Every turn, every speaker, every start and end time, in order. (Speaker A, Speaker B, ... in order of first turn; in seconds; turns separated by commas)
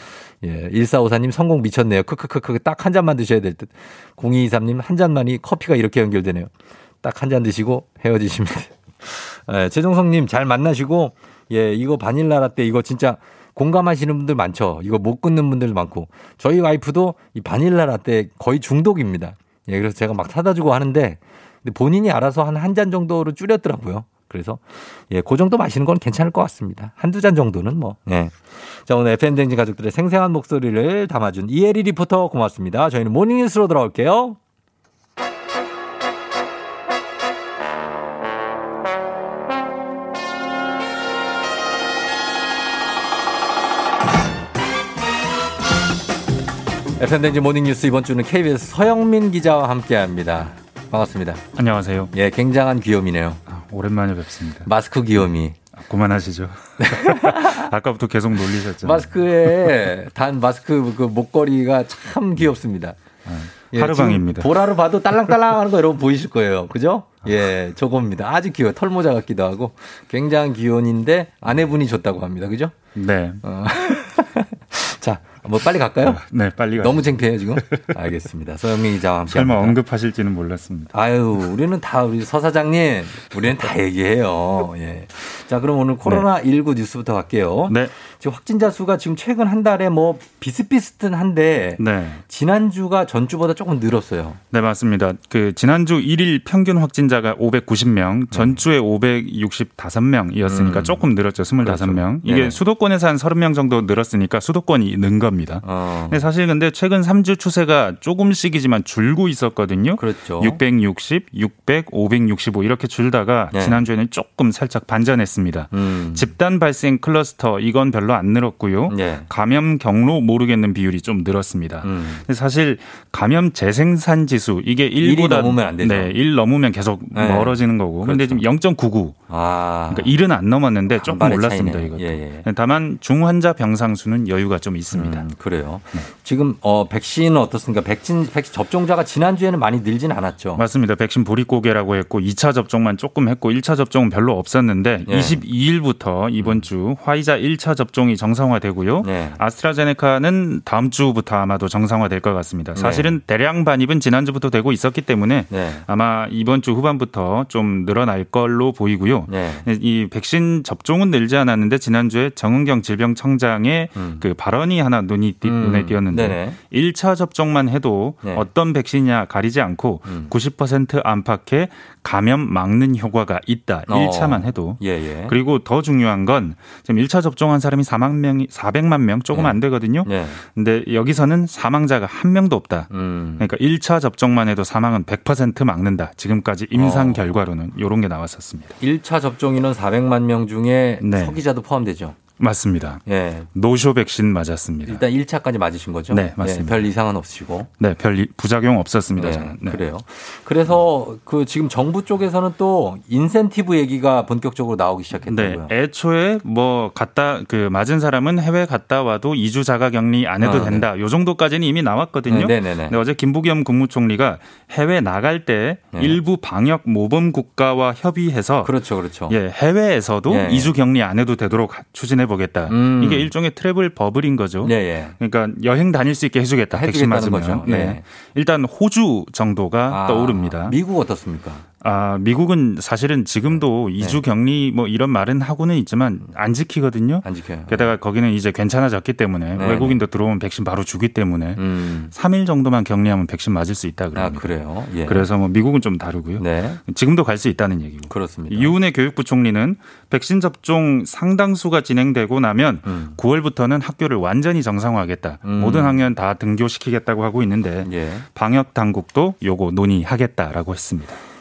Speaker A: 0.4-6.5, Speaker A: 7.0-34.4, Speaker A: 47.0-51.4, Speaker B: 51.5-52.1, Speaker A: 52.1-53.4, Speaker B: 53.5-54.7, Speaker A: 54.6-55.6, Speaker B: 55.7-59.7, Speaker A: 56.8-57.7, Speaker A: 58.8-72.8, Speaker B: 63.3-64.5, Speaker B: 73.0-73.4, Speaker A: 73.4-76.2, Speaker B: 76.0-77.2, Speaker A: 76.8-79.8, Speaker B: 79.3-80.9, Speaker A: 80.9-94.4, Speaker B: 91.8-92.2, Speaker B: 94.5-129.2, Speaker A: 98.3-98.6, Speaker A: 100.5-101.1, Speaker A: 101.6-102.6, Speaker A: 105.6-106.2, Speaker A: 110.0-110.6, Speaker A: 113.5-113.8, Speaker A: 115.7-116.3, Speaker A: 118.9-119.3, Speaker A: 121.8-122.2, Speaker A: 125.0-126.1, Speaker A: 127.1-128.4, Speaker A: 129.3-130.1, Speaker B: 129.9-135.2, Speaker A: 130.9-132.5, Speaker A: 134.9-140.6, Speaker B: 140.6-182.9, Speaker A: 145.1-145.4, Speaker A: 146.4-146.7, Speaker A: 149.0-149.4, Speaker A: 152.8-153.2, Speaker A: 155.5-155.8, Speaker A: 159.3-159.7, Speaker A: 163.9-164.2, Speaker A: 165.4-166.6, Speaker A: 168.2-168.5, Speaker A: 170.0-170.3, Speaker A: 173.9-175.3, Speaker A: 179.3-180.4, Speaker A: 182.9-183.5, Speaker B: 183.4-188.8, Speaker A: 186.7-187.3, Speaker A: 188.8-192.2, Speaker B: 191.0-191.4, Speaker B: 192.4-193.0, Speaker A: 193.0-193.5, Speaker B: 193.5-195.0, Speaker A: 194.8-197.7, Speaker B: 196.1-196.9, Speaker B: 197.8-199.8, Speaker A: 199.2-205.7, Speaker B: 205.2-218.7, Speaker A: 210.4-210.9, Speaker A: 212.3-213.0, Speaker A: 215.9-216.2, Speaker A: 218.6-219.3, Speaker B: 219.3-230.8, Speaker A: 220.3-220.7, Speaker A: 222.7-223.3, Speaker A: 224.6-225.2, Speaker A: 226.7-228.0, Speaker A: 229.9-231.7, Speaker B: 231.8-241.6, Speaker A: 237.2-237.9, Speaker A: 239.5-240.0, Speaker A: 241.6-242.1, Speaker B: 242.1-244.5, Speaker A: 244.1-245.3, Speaker B: 245.0-261.2, Speaker A: 246.4-246.8, Speaker A: 248.1-248.7, Speaker A: 252.8-253.2, Speaker A: 255.4-256.0, Speaker A: 257.8-258.2